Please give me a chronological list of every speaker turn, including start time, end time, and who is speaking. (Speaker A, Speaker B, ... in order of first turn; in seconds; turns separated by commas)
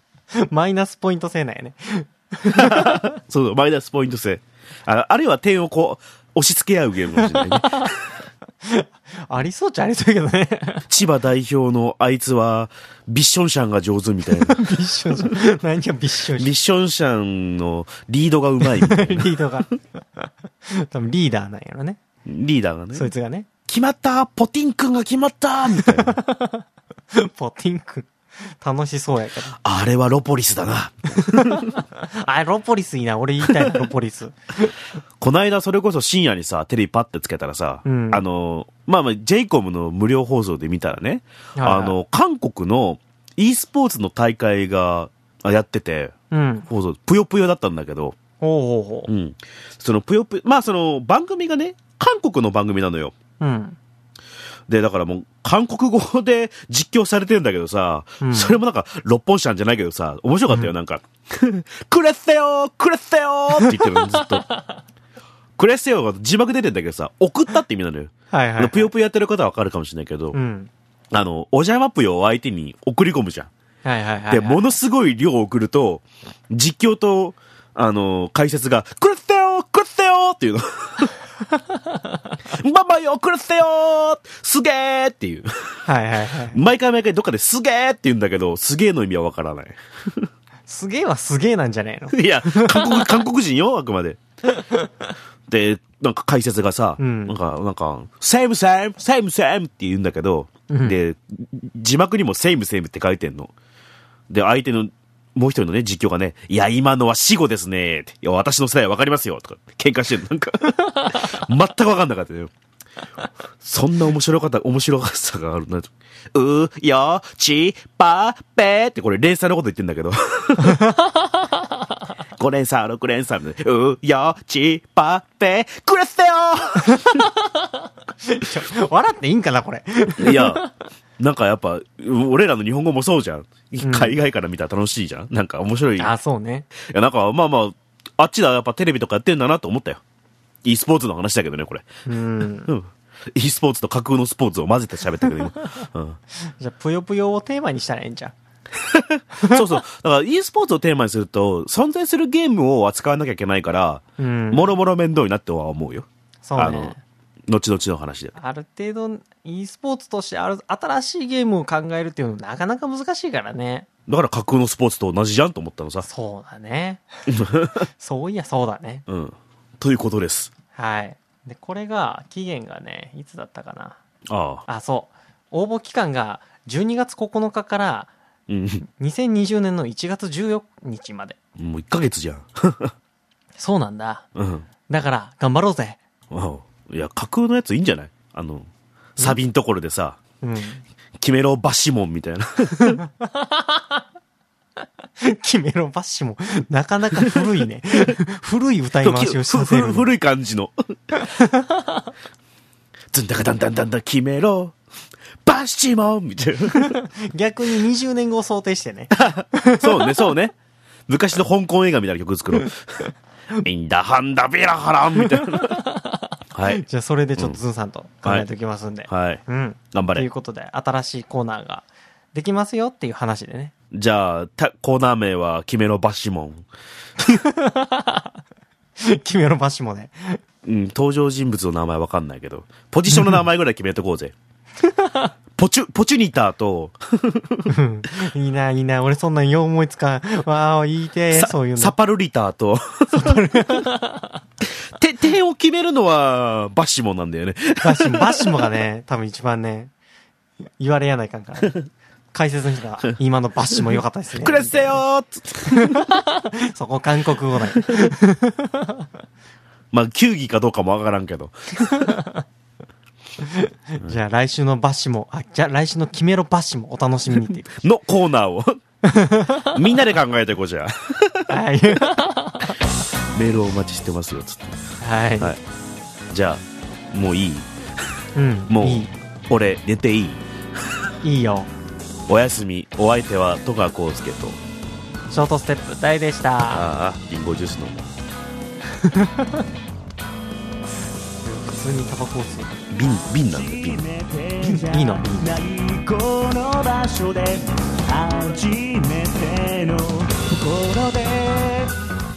Speaker A: 0.3-3.1, Speaker B: 2.5-8.0, Speaker A: 7.2-7.9, Speaker A: 8.6-10.9, Speaker B: 10.9-14.7, Speaker A: 14.3-16.5, Speaker B: 16.4-19.4, Speaker A: 18.6-22.0, Speaker B: 22.3-23.1, Speaker A: 22.9-23.5, Speaker B: 23.7-26.2, Speaker A: 25.7-29.6, Speaker B: 29.6-31.7, Speaker A: 31.2-34.7, Speaker B: 35.2-46.1, Speaker A: 37.9-38.2, Speaker A: 41.6-42.0, Speaker A: 46.3-46.7, Speaker B: 46.7-48.2, Speaker A: 48.4-49.1, Speaker B: 49.1-53.1, Speaker A: 53.4-53.8, Speaker B: 54.7-64.5, Speaker A: 58.2-58.6, Speaker A: 63.6-64.4, Speaker B: 65.6-70.4, Speaker A: 68.3-68.9, Speaker A: 70.3-70.7, Speaker B: 71.1-73.5, Speaker A: 73.8-74.7, Speaker B: 74.3-81.1, Speaker B: 82.5-85.8, Speaker A: 85.9-86.6, Speaker B: 86.5-90.3, Speaker A: 90.7-93.2, Speaker B: 92.1-94.2, Speaker A: 94.5-95.1, Speaker B: 95.5-103.5, Speaker A: 97.0-97.4, Speaker A: 100.7-101.0, Speaker B: 104.3-112.5, Speaker B: 113.6-120.9, Speaker A: 120.6-121.1, Speaker B: 122.4-127.3, Speaker A: 126.9-130.7, Speaker B: 130.2-130.6, Speaker B: 131.2-136.1, Speaker A: 133.8-134.1, Speaker A: 136.0-136.7, Speaker B: 136.8-140.0, Speaker B: 140.7-142.0, Speaker A: 142.1-142.7, Speaker B: 142.7-146.2, Speaker A: 146.4-148.3, Speaker B: 148.8-157.0, Speaker A: 149.4-149.7, Speaker A: 154.2-154.7, Speaker A: 156.4-157.0, Speaker B: 157.5-158.3, Speaker A: 158.4-163.9, Speaker B: 164.1-166.1, Speaker A: 166.0-167.1, Speaker B: 167.3-167.8, Speaker A: 167.8-169.1, Speaker B: 169.1-170.5, Speaker A: 170.8-174.0, Speaker B: 174.3-174.7, Speaker A: 174.7-178.1, Speaker B: 178.5-178.8, Speaker A: 178.9-181.4, Speaker B: 181.6-182.9, Speaker A: 183.6-184.3, Speaker B: 184.3-184.7, Speaker A: 184.9-186.0, Speaker B: 186.3-190.2, Speaker A: 190.4-190.8, Speaker B: 191.2-193.0, Speaker A: 192.8-194.0, Speaker A: 195.2-200.1, Speaker B: 199.0-200.7, Speaker A: 201.1-202.0, Speaker B: 203.1-204.8, Speaker B: 205.4-207.0, Speaker A: 206.8-210.3, Speaker B: 209.1-210.6, Speaker B: 211.1-212.8, Speaker B: 213.6-215.8, Speaker A: 215.3-223.7, Speaker B: 216.5-216.8, Speaker B: 219.1-220.3, Speaker B: 223.9-226.7, Speaker A: 227.2-228.3, Speaker A: 229.0-230.4, Speaker B: 230.7-234.3, Speaker A: 233.1-233.4, Speaker A: 234.8-235.3, Speaker B: 235.6-237.7, Speaker A: 237.7-241.9, Speaker B: 241.3-243.4, Speaker A: 243.1-244.3, Speaker B: 244.9-248.7, Speaker A: 247.8-249.9, Speaker A: 250.8-251.8, Speaker A: 252.3-255.0, Speaker B: 254.4-256.1, Speaker A: 255.7-259.1, Speaker B: 259.9-262.1, Speaker A: 261.9-262.4, Speaker A: 263.4-267.7, Speaker B: 267.7-268.8, Speaker A: 269.0-269.8, Speaker B: 269.6-271.5, Speaker A: 271.5-272.8, Speaker B: 273.3-274.8, Speaker A: 275.0-275.6, Speaker B: 276.3-277.7, Speaker A: 278.4-279.1, Speaker B: 278.7-280.4, Speaker A: 281.2-281.7, Speaker B: 282.3-284.6, Speaker A: 285.3-286.9, Speaker B: 286.7-288.1, Speaker A: 289.0-289.7, Speaker A: 291.4-292.8, Speaker B: 292.9-294.1, Speaker C: 293.0-301.9, Speaker A: 294.6-295.6